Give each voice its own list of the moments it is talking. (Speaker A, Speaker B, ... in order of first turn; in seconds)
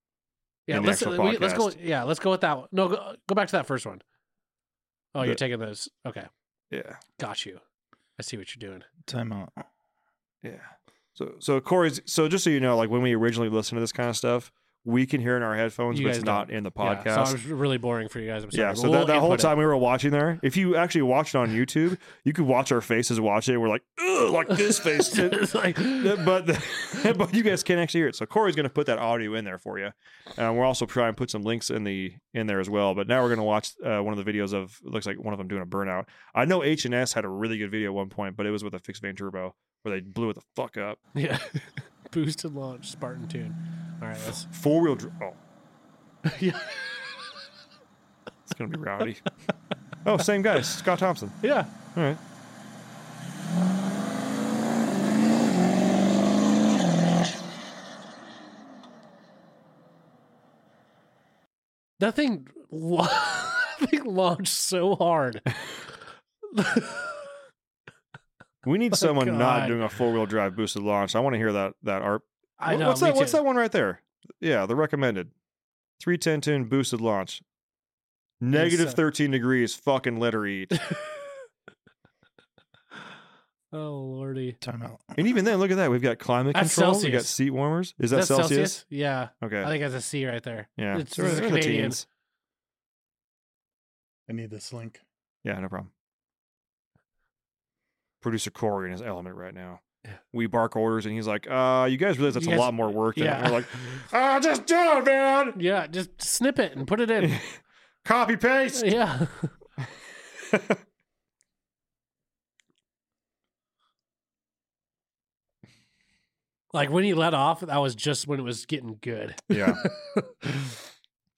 Speaker A: 0.7-4.0, 5.1-6.3, 7.2-7.6, 8.2-8.9, 15.9-19.5, 24.7-26.3, 41.2-44.5, 46.3-47.3, 51.4-51.7, 62.0-65.5, 66.5-67.3, 69.0-69.8, 72.6-73.4, 78.5-79.0, 83.7-84.6, 86.5-87.3, 88.1-92.0, 102.4-104.0, 105.5-107.4, 108.8-109.5, 116.7-120.8
Speaker B: 0.7-1.8, 6.7-7.0, 10.4-17.4, 18.5-41.0, 44.2-45.4, 48.5-49.3, 50.0-51.4, 51.9-52.2, 68.6-75.3, 76.0-77.4, 78.4-80.8, 85.2-88.8, 89.4-89.7, 90.8-92.0, 95.4-95.9, 98.2-99.8, 100.3-105.6, 107.2-107.5, 108.0-108.9, 110.5-110.8, 119.5-119.8
Speaker C: 9.1-9.7, 84.6-85.2, 94.3-95.0